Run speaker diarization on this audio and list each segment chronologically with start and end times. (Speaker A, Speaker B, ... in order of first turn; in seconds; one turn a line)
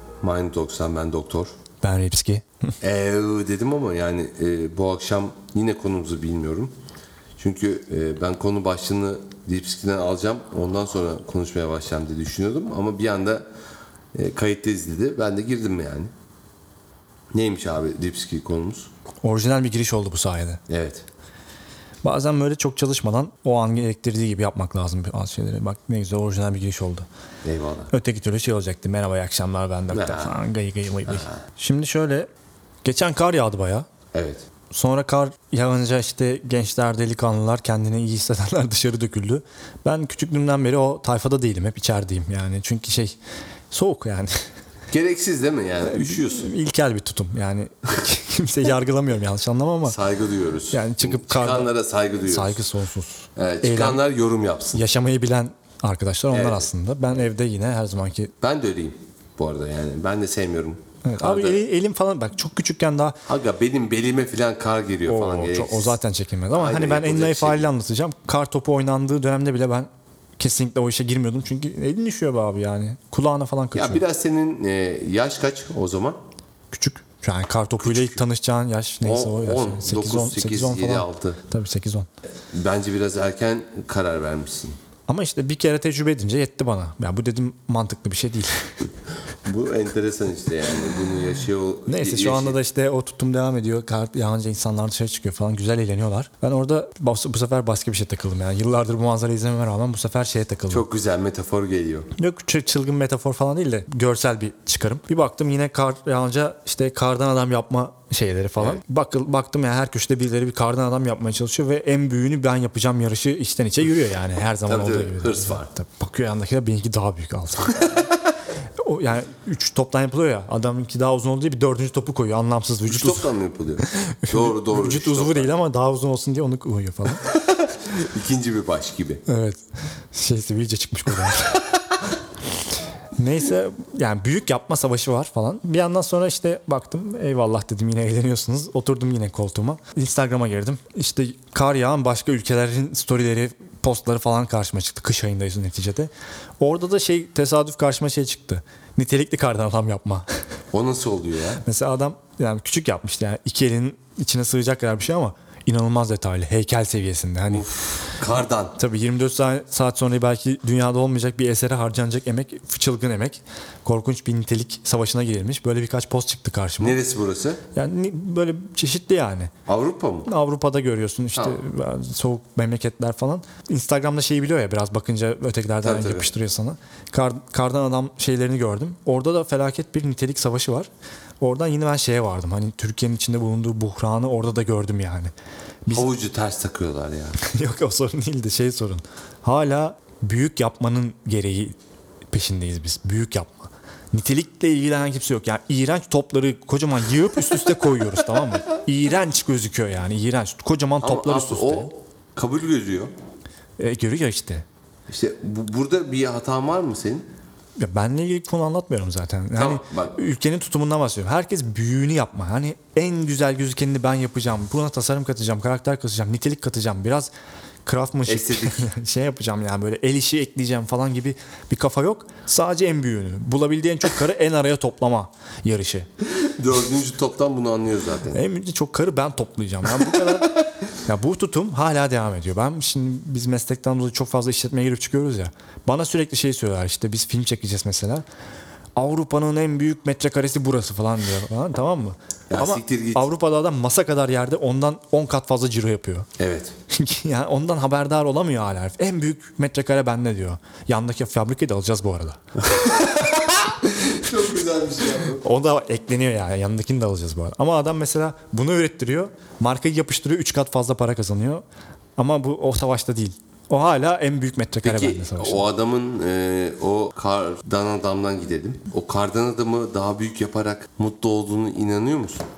Speaker A: 0.2-1.5
Speaker B: 1.8-2.7
Speaker A: 2.8-6.7
Speaker A: 7.4-13.4
Speaker A: 14.1-16.1
Speaker A: 17.3-18.9
Speaker B: 19.2-20.6
Speaker A: 20.7-21.0
Speaker B: 22.0-27.1
Speaker A: 27.4-27.9
Speaker B: 27.9-32.3
Speaker A: 29.9-30.4
Speaker A: 31.1-31.3
Speaker B: 32.8-33.9
Speaker A: 34.1-34.4
Speaker B: 34.7-43.2
Speaker B: 43.7-44.3
Speaker A: 44.9-46.5
Speaker B: 45.8-50.0
Speaker A: 49.8-52.6
Speaker B: 50.7-51.7
Speaker B: 52.2-54.0
Speaker A: 53.4-54.8
Speaker B: 54.7-58.3
Speaker A: 56.3-56.7
Speaker A: 58.4-61.6
Speaker B: 61.0-63.2
Speaker A: 63.3-66.0
Speaker B: 65.1-74.0
Speaker A: 66.5-67.7
Speaker A: 73.8-76.2
Speaker B: 76.7-82.1
Speaker A: 77.8-78.2
Speaker A: 79.0-81.4
Speaker A: 82.5-84.8
Speaker B: 85.1-88.8
Speaker A: 89.5-92.6
Speaker B: 91.9-100.8
Speaker A: 100.7-102.1
Speaker B: 102.2-117.9
Speaker A: 114.7-115.7
Speaker B: 118.8-123.3
Speaker A: 122.9-125.5
Speaker B: 123.9-127.3
Speaker A: 127.8-129.2
Speaker B: 129.3-131.7
Speaker B: 133.2-150.3
Speaker A: 150.7-151.6
Speaker B: 151.6-157.7
Speaker A: 157.5-158.8
Speaker B: 158.8-167.0
Speaker A: 166.8-167.6
Speaker B: 167.7-169.5
Speaker A: 169.7-170.3
Speaker B: 170.2-180.9
Speaker A: 175.8-176.3
Speaker B: 181.4-185.3
Speaker A: 185.9-187.4
Speaker B: 187.4-191.8
Speaker B: 192.3-201.9
Speaker A: 201.0-203.1
Speaker B: 203.8-204.7
Speaker A: 205.1-207.3
Speaker B: 207.8-217.3
Speaker A: 209.5-210.2
Speaker B: 217.8-226.1
Speaker A: 218.2-218.9
Speaker A: 226.2-228.4
Speaker B: 228.3-238.2
Speaker B: 239.0-246.3
Speaker A: 242.5-243.3
Speaker A: 246.4-246.7
Speaker B: 246.9-252.4
Speaker A: 252.8-253.3
Speaker A: 253.9-255.4
Speaker B: 255.4-261.6
Speaker B: 262.2-265.7
Speaker A: 264.8-272.4